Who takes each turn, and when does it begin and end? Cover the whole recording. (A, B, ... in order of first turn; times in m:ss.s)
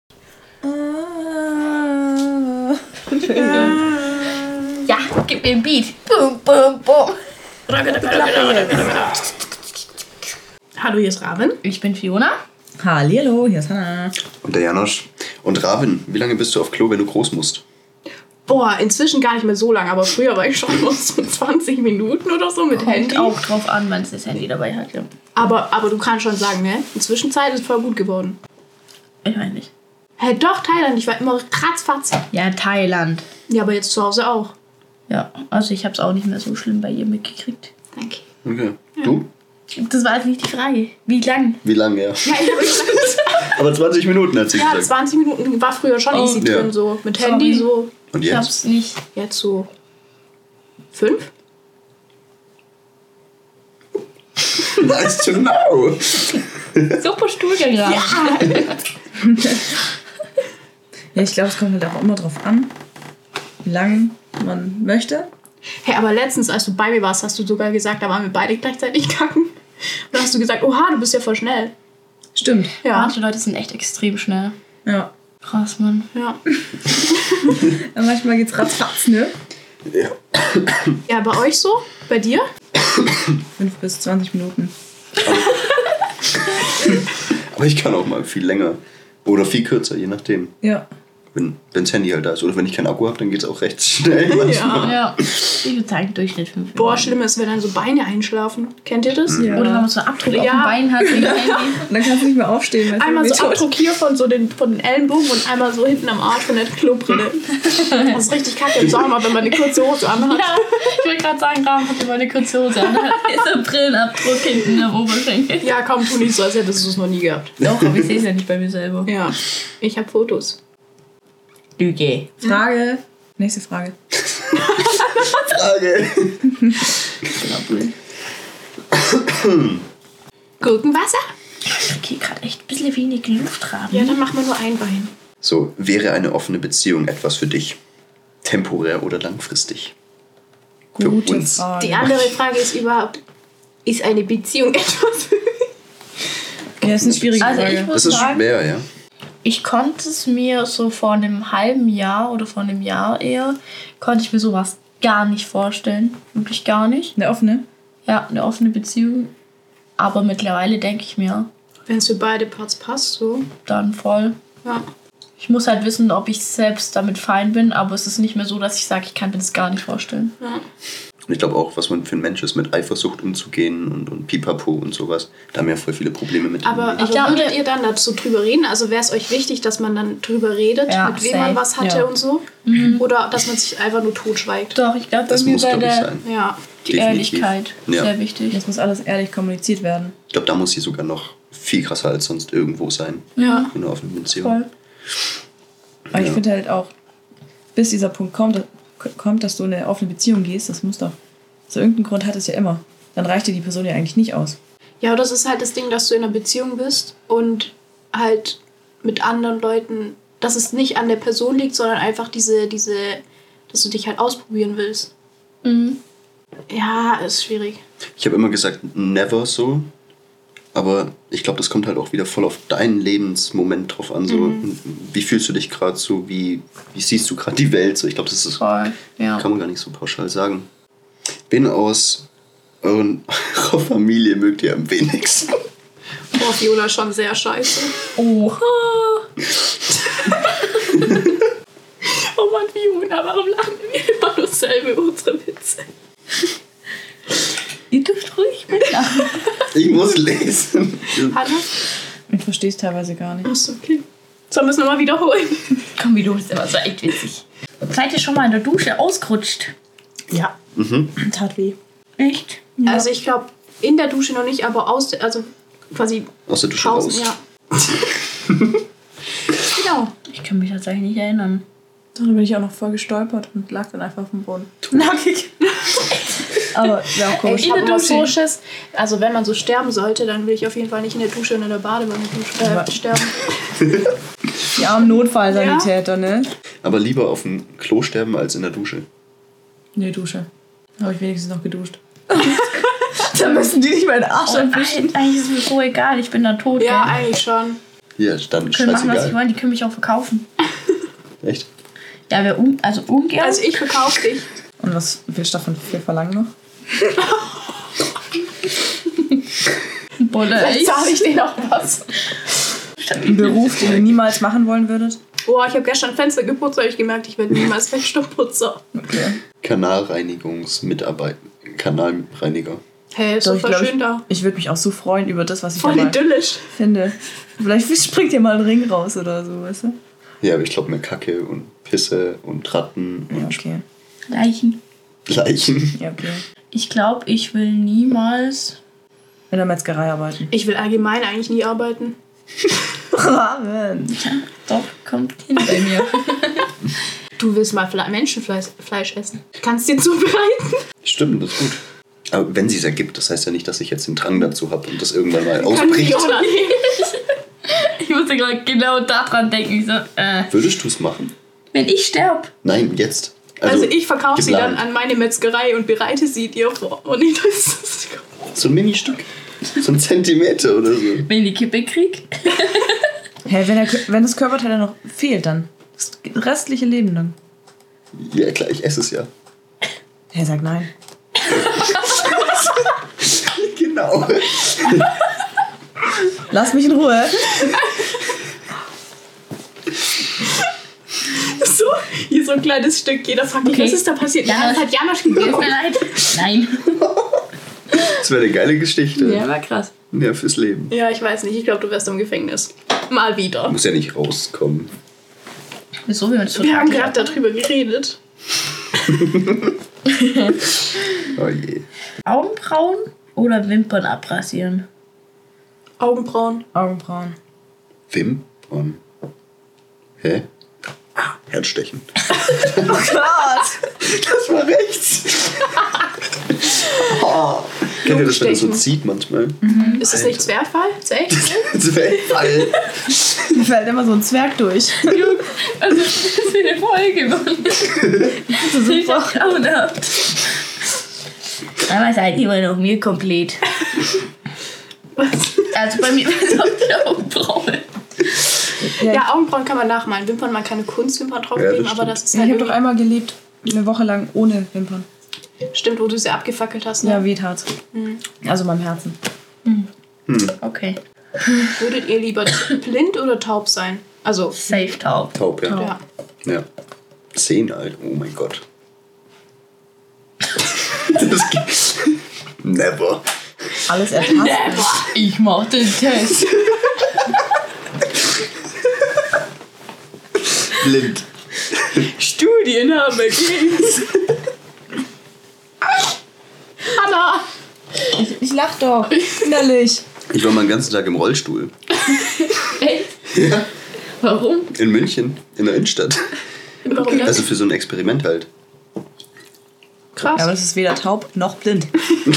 0:00.6-0:04.6 A
0:03.4-0:03.7 B
0:04.8-0:07.2 B
0:07.7-0:09.2 C
0:08.1-0:08.9 A
0:10.8-0:11.6 C
0:11.6-0:12.4 B
0:12.8-0:14.2 A
0:14.3-0:17.6 D
0:18.5-0:23.4 C
0:22.8-0:25.1 B
0:25.3-0:28.4 C
0:29.2-0:29.7 B
0:30.2-0:32.2 C
0:32.3-0:33.2 B
0:33.5-0:34.5 C
0:35.1-0:37.7 B
0:37.9-0:38.2 C
0:38.4-0:39.3 D
0:39.7-0:41.6 B
0:41.6-0:42.3 D
0:42.2-0:43.3 C
0:43.5-0:44.9 D
0:44.5-0:47.9 C
0:46.1-0:46.4 B
0:46.4-0:46.7 D
0:47.2-0:47.7 B
0:48.1-0:48.5 D
0:48.2-0:49.0 B
0:49.1-0:49.7 C
0:50.9-0:51.3 C
0:54.6-0:57.0 D
0:57.0-0:58.7 B
0:57.8-0:58.5 C
0:59.2-0:59.6 A
1:01.1-1:02.7 A
1:03.6-1:05.3 A
1:05.8-1:09.5 C
1:10.1-1:11.7 C
1:12.4-1:12.7 A
1:12.8-1:13.2 C
1:12.9-1:14.5 B
1:14.8-1:15.1 A
1:15.4-1:16.1 B
1:16.1-1:16.4 C
1:17.6-1:19.3 A
1:19.9-1:21.0 D
1:21.1-1:22.4 C
1:23.6-1:24.7 A
1:25.2-1:25.6 D
1:26.8-1:30.5 D
1:30.6-1:30.9 A
1:31.3-1:35.3 D
1:34.3-1:34.9 C
1:34.8-1:37.1 B
1:36.8-1:39.4 C
1:39.3-1:39.6 D
1:39.3-1:39.9 A
1:39.5-1:41.9 B
1:40.2-1:40.8 C
1:41.0-1:43.7 A
1:42.9-1:47.5 C
1:47.6-1:48.1 B
1:48.1-1:50.6 C
1:50.2-1:55.7 B
1:55.6-1:57.5 C
1:57.6-1:59.2 B
1:59.0-2:00.6 C
2:01.8-2:02.3 B
2:02.4-2:03.9 A
2:04.3-2:06.6 D
2:07.3-2:07.9 B
2:08.9-2:09.8 D
2:10.6-2:11.2 C
2:11.6-2:14.2 B
2:13.9-2:15.1 C
2:15.4-2:17.8 D
2:18.4-2:19.9 D
2:21.0-2:22.3 A
2:21.0-2:22.3 D
2:21.8-2:23.2 C
2:23.8-2:25.6 C
2:26.8-2:28.2 A
2:27.0-2:28.8 D
2:27.4-2:28.4 B
2:29.4-2:37.1 B
2:37.2-2:37.6 A
2:38.0-2:39.3 B
2:40.0-2:41.5 B
2:41.9-2:43.5 C
2:43.6-2:44.4 B
2:45.4-2:50.3 B
2:51.3-2:57.2 D
2:56.6-3:04.8 C
2:57.0-2:57.6 B
3:00.9-3:01.6 B
3:01.8-3:02.1 A
3:02.6-3:03.0 B
3:04.7-3:06.1 B
3:05.3-3:06.2 D
3:06.2-3:06.8 C
3:06.8-3:08.6 B
3:06.9-3:08.1 D
3:08.5-3:10.1 A
3:10.3-3:14.6 D
3:13.4-3:13.7 B
3:13.4-3:13.7 C
3:14.4-3:14.7 B
3:16.1-3:16.9 A
3:16.1-3:16.4 D
3:17.7-3:21.2 A
3:21.7-3:24.6 A
3:25.0-3:35.1 C
3:35.6-3:36.0 B
3:36.7-3:37.8 C
3:38.2-3:39.9 D
3:40.7-3:48.6 D
3:44.3-3:44.6 C
3:48.6-3:49.4 B
3:49.3-3:50.7 D
3:51.5-3:52.2 D
3:52.8-3:55.6 D
3:56.3-3:57.9 C
3:58.2-3:59.2 B
4:02.0-4:05.8 C
4:07.9-4:09.5 B
4:09.7-4:11.4 D
4:11.3-4:11.7 C
4:12.3-4:13.5 A
4:13.4-4:15.6 C
4:16.0-4:19.7 B
4:20.7-4:21.1 D
4:21.2-4:21.8 A
4:22.2-4:22.6 B
4:22.8-4:23.0 A
4:22.8-4:27.4 C
4:26.5-4:27.3 D
4:29.7-4:30.1 C
4:30.3-4:31.6 B
4:32.2-4:35.1 A
4:34.9-4:35.5 B
4:36.7-4:38.3 A
4:37.4-4:43.3 C
4:42.6-4:42.9 A
4:44.7-4:46.5 A
4:45.5-4:45.9 C
4:46.8-4:49.0 D
4:49.9-4:50.5 A
4:51.0-4:52.6 A
4:53.2-4:55.2 A
4:54.4-4:57.2 B
4:56.8-4:57.8 C
4:58.2-4:59.4 D
4:58.7-5:00.5 B
5:01.4-5:01.7 D
5:02.3-5:03.7 B
5:03.4-5:04.4 C
5:04.8-5:06.5 A
5:10.2-5:11.2 B
5:10.5-5:12.0 C
5:13.0-5:14.1 B
5:13.2-5:15.2 A
5:15.4-5:18.8 C
5:19.0-5:19.4 A
5:19.6-5:22.8 D
5:23.1-5:24.2 C
5:23.4-5:30.0 A
5:25.8-5:26.6 C
5:30.4-5:33.6 D
5:33.3-5:33.8 A
5:34.3-5:34.8 B
5:35.3-5:36.0 D
5:35.9-5:36.4 A
5:36.7-5:38.8 B
5:39.5-5:40.5 A
5:40.5-5:42.2 C
5:43.1-5:44.2 A
5:44.1-5:46.7 B
5:47.4-5:50.8 C
5:51.0-5:56.4 D
5:55.6-5:56.9 C
5:57.0-5:57.2 B
5:57.7-6:00.5 B
6:00.5-6:01.3 D
6:01.7-6:02.5 B
6:02.6-6:04.9 D
6:03.6-6:08.3 C
6:08.5-6:11.3 D
6:11.2-6:13.0 B
6:13.4-6:17.3 A
6:18.1-6:19.3 D
6:20.3-6:20.9 A
6:21.7-6:25.1 D
6:26.5-6:27.5 A
6:31.3-6:35.9 C
6:33.6-6:37.0 B
6:38.0-6:39.5 D
6:39.2-6:39.9 B
6:40.1-6:40.9 D
6:40.9-6:43.8 C
6:43.7-6:44.9 D
6:46.0-6:47.4 B
6:46.6-6:48.2 C
6:50.2-6:50.6 B
6:51.3-6:51.8 D
6:52.2-6:54.9 B
6:56.0-6:56.6 C
6:56.7-6:57.4 A
6:58.1-6:59.0 D
7:00.2-7:00.4 D
7:01.2-7:03.2 D
7:02.8-7:03.8 A
7:03.9-7:05.7 D
7:06.5-7:10.5 D
7:08.0-7:08.8 C
7:09.6-7:10.0 A
7:09.7-7:10.0 B
7:10.0-7:11.4 C
7:11.3-7:13.5 D
7:13.5-7:15.3 A
7:15.1-7:20.4 B
7:18.5-7:19.5 A
7:21.8-7:23.6 B
7:25.2-7:25.7 C
7:25.7-7:27.9 B
7:28.9-7:29.3 A
7:29.1-7:32.8 C
7:31.5-7:32.2 D
7:32.3-7:35.0 A
7:35.7-7:37.2 C
7:37.0-7:37.7 A
7:37.9-7:38.2 C
7:38.3-7:39.2 A
7:40.3-7:40.5 D
7:40.6-7:41.0 B
7:41.8-7:44.6 C
7:44.6-7:45.4 B
7:45.3-7:45.9 D
7:45.6-7:46.0 A
7:45.7-7:46.0 C
7:47.3-7:48.6 D
7:50.8-7:53.2 D
7:53.9-7:55.0 A
7:54.1-7:55.1 C
7:55.0-7:56.5 B
8:00.7-8:01.3 D
8:02.0-8:04.0 C
8:06.9-8:07.4 C
8:08.2-8:10.0 A
8:10.3-8:11.7 D
8:12.6-8:13.1 B
8:13.3-8:13.7 D
8:14.2-8:14.7 B
8:14.7-8:16.3 D
8:16.9-8:17.4 C
8:17.1-8:18.5 D
8:20.2-8:20.4 C
8:20.2-8:22.0 A